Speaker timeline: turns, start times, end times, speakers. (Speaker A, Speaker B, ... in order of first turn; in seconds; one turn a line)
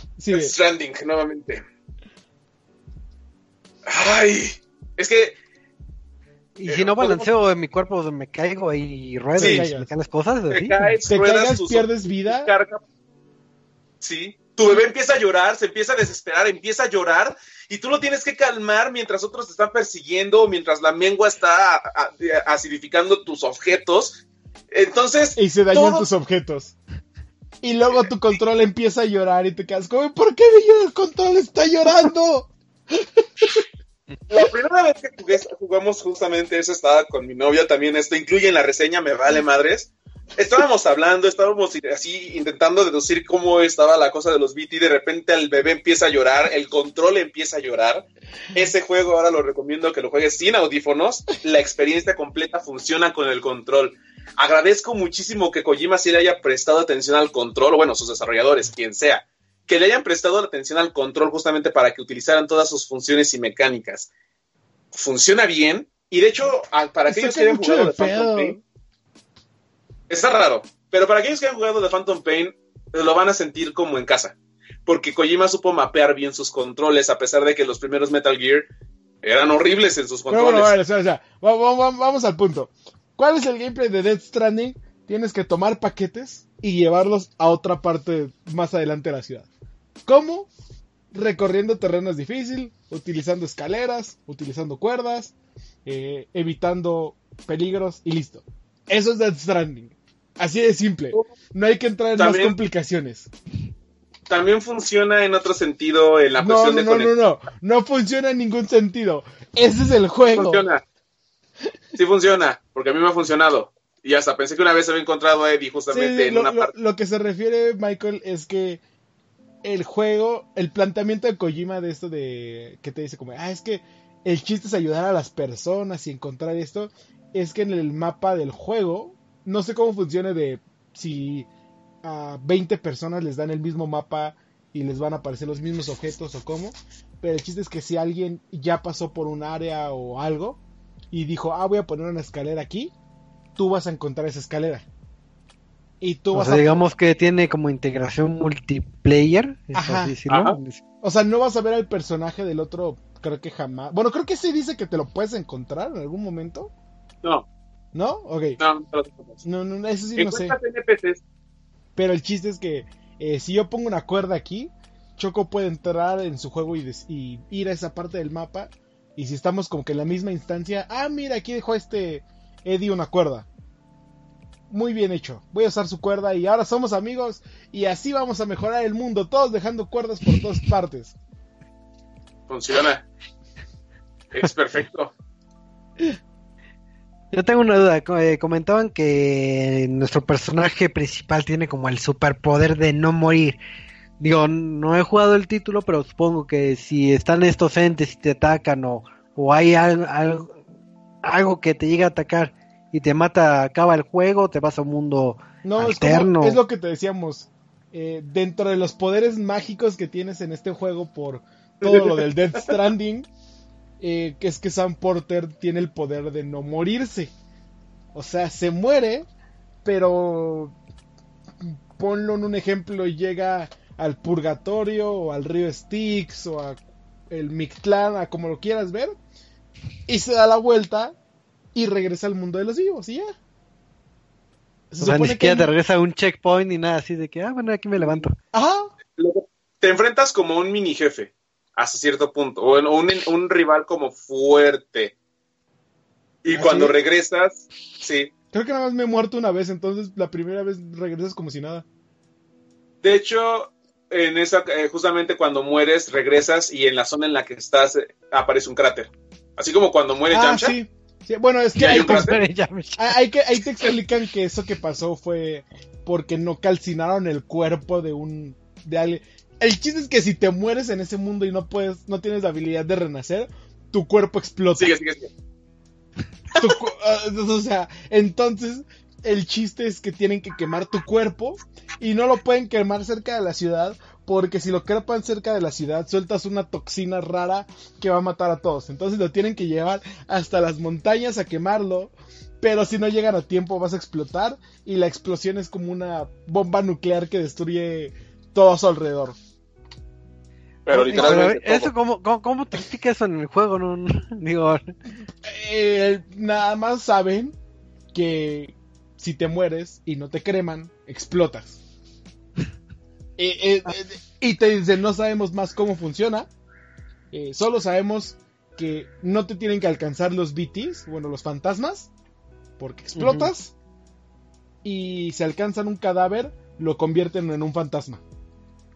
Speaker A: 0.2-0.5
Speaker B: 0.3-1.6
Speaker B: 3.9-5.4
Speaker C: 6.6-10.9
Speaker B: 6.7-7.3
Speaker A: 9.4-9.9
Speaker B: 9.4-9.7
Speaker B: 10.5-12.8
Speaker A: 11.1-12.5
Speaker B: 14.0-26.1
Speaker A: 25.4-26.8
Speaker A: 27.6-33.6
Speaker B: 34.3-64.1
Speaker B: 64.9-68.6
Speaker A: 67.0-68.6
Speaker B: 70.1-78.7
Speaker B: 79.2-80.7
Speaker A: 80.3-89.5
Speaker A: 90.0-90.5
Speaker A: 91.1-95.3
Speaker A: 95.8-103.3
Speaker B: 102.2-102.5
Speaker B: 104.3-107.1
Speaker A: 106.4-110.6
Speaker B: 110.3-110.8
Speaker B: 112.0-116.7
Speaker A: 115.9-118.8
Speaker A: 119.6-131.5
Speaker A: 132.0-140.6
Speaker A: 141.1-142.9
Speaker A: 143.6-144.9
Speaker A: 146.0-146.8
Speaker C: 146.3-150.8
Speaker A: 149.7-150.2
Speaker B: 150.3-150.6
Speaker A: 151.0-156.7
Speaker A: 157.9-158.6
Speaker B: 158.6-159.4
Speaker A: 159.4-160.6
Speaker B: 160.2-161.2
Speaker A: 162.0-173.5
Speaker A: 174.7-181.2
Speaker B: 182.5-183.0
Speaker B: 184.3-185.1
Speaker C: 187.3-193.6
Speaker C: 194.2-200.6
Speaker C: 201.2-206.6
Speaker A: 205.6-213.3
Speaker B: 211.8-212.1
Speaker A: 214.0-217.3
Speaker A: 218.1-219.3
Speaker A: 219.8-220.8
Speaker A: 221.6-229.2
Speaker A: 230.1-231.1
Speaker A: 231.8-233.3
Speaker A: 234.9-235.7
Speaker C: 235.0-238.3
Speaker A: 238.5-238.9
Speaker B: 239.2-245.1
Speaker B: 246.4-248.3
Speaker A: 246.5-247.0
Speaker A: 248.5-251.8
Speaker B: 253.0-260.8
Speaker A: 260.3-262.4
Speaker B: 261.8-262.4
Speaker C: 261.9-263.2
Speaker A: 263.0-274.9
Speaker B: 274.8-275.3
Speaker A: 276.6-299.4
Speaker B: 300.9-301.9
Speaker A: 300.9-301.4
Speaker C: 301.1-304.9
Speaker A: 305.4-307.6
Speaker A: 308.1-311.8
Speaker A: 313.4-316.5
Speaker A: 317.3-322.1
Speaker A: 322.8-323.7
Speaker C: 323.2-323.5
Speaker A: 324.8-328.2